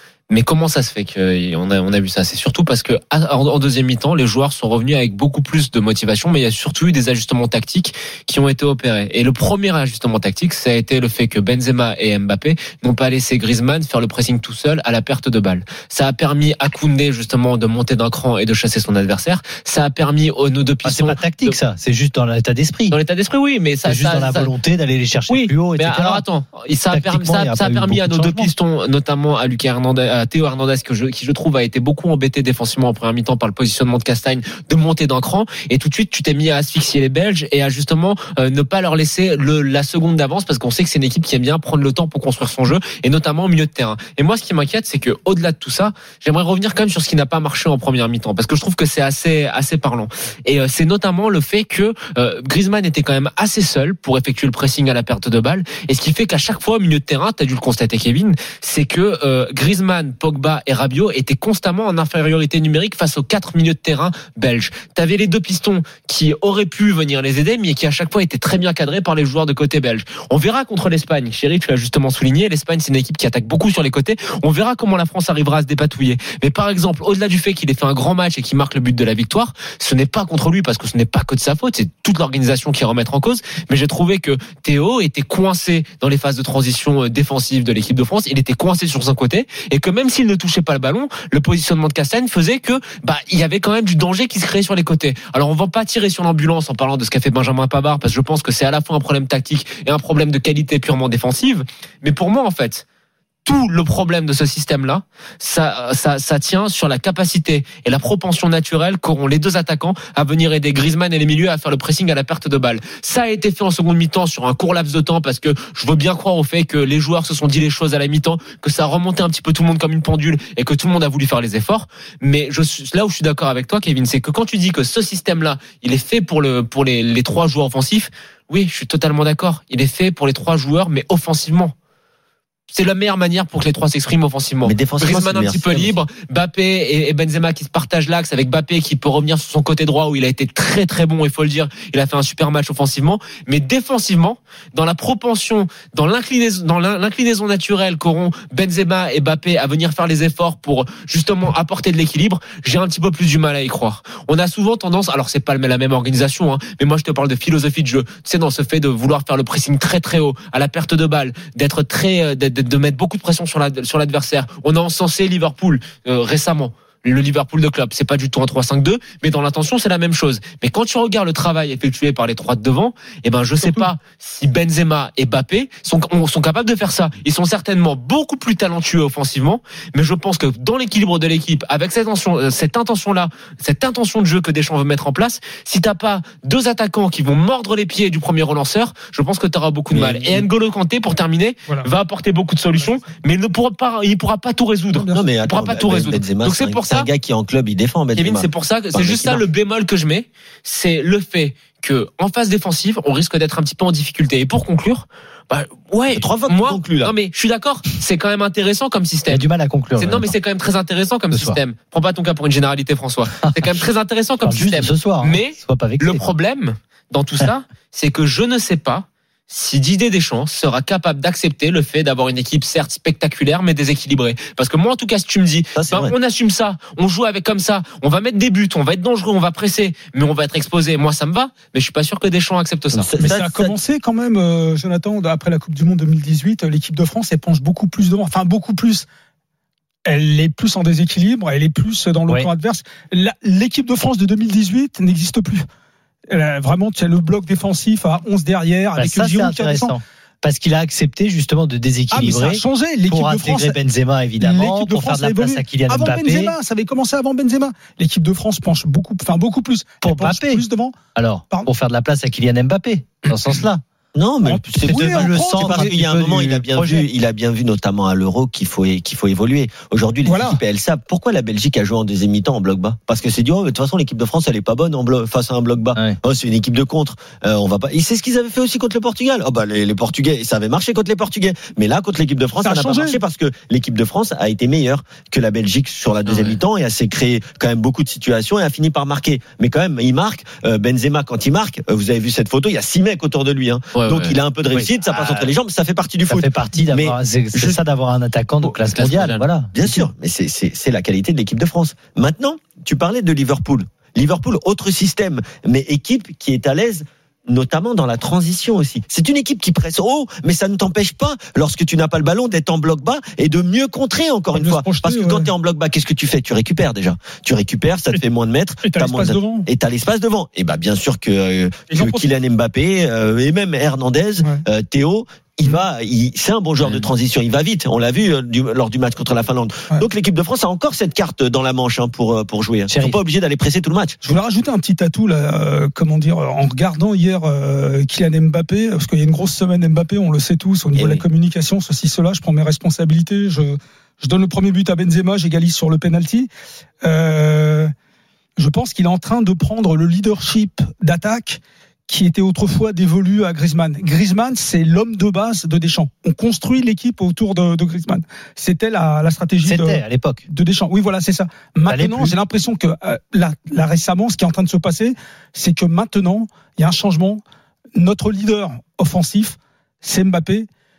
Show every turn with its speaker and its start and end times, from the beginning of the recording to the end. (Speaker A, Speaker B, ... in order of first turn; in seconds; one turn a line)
Speaker A: 0.3-21.6
Speaker B: 20.8-22.9
Speaker A: 22.9-24.5
Speaker B: 23.8-26.2
Speaker A: 25.3-102.8
Speaker B: 26.9-28.5
Speaker A: 103.5-131.7
Speaker A: 132.7-197.1
Speaker C: 134.6-136.0
Speaker D: 173.6-173.9
Speaker C: 189.9-190.4
Speaker D: 194.9-195.2
Speaker C: 195.1-199.4
Speaker A: 198.1-233.1
Speaker C: 206.1-207.1
Speaker B: 209.3-210.3
Speaker B: 211.3-211.6
Speaker B: 213.4-213.8
Speaker B: 214.4-216.2
Speaker C: 225.7-226.1
Speaker C: 232.9-233.8
Speaker D: 233.2-239.1
Speaker D: 240.1-245.7
Speaker D: 246.3-249.9
Speaker B: 248.9-256.5
Speaker D: 252.1-253.8
Speaker D: 254.4-261.0
Speaker B: 260.0-263.8
Speaker C: 264.1-297.8
Speaker D: 264.4-265.8
Speaker B: 264.8-267.1
Speaker D: 270.2-270.6
Speaker D: 282.6-283.2
Speaker A: 286.2-286.6
Speaker A: 293.9-294.4
Speaker B: 294.7-295.5
Speaker B: 296.3-300.1
Speaker A: 298.6-299.4
Speaker C: 299.7-334.2
Speaker D: 314.5-315.5
Speaker D: 318.8-319.7
Speaker D: 321.9-322.3
Speaker A: 326.8-327.1
Speaker B: 332.9-333.2
Speaker D: 334.2-346.5
Speaker C: 340.9-341.2
Speaker D: 347.0-347.9
Speaker D: 348.6-367.4
Speaker B: 359.6-360.4
Speaker B: 361.9-362.4
Speaker D: 367.9-370.7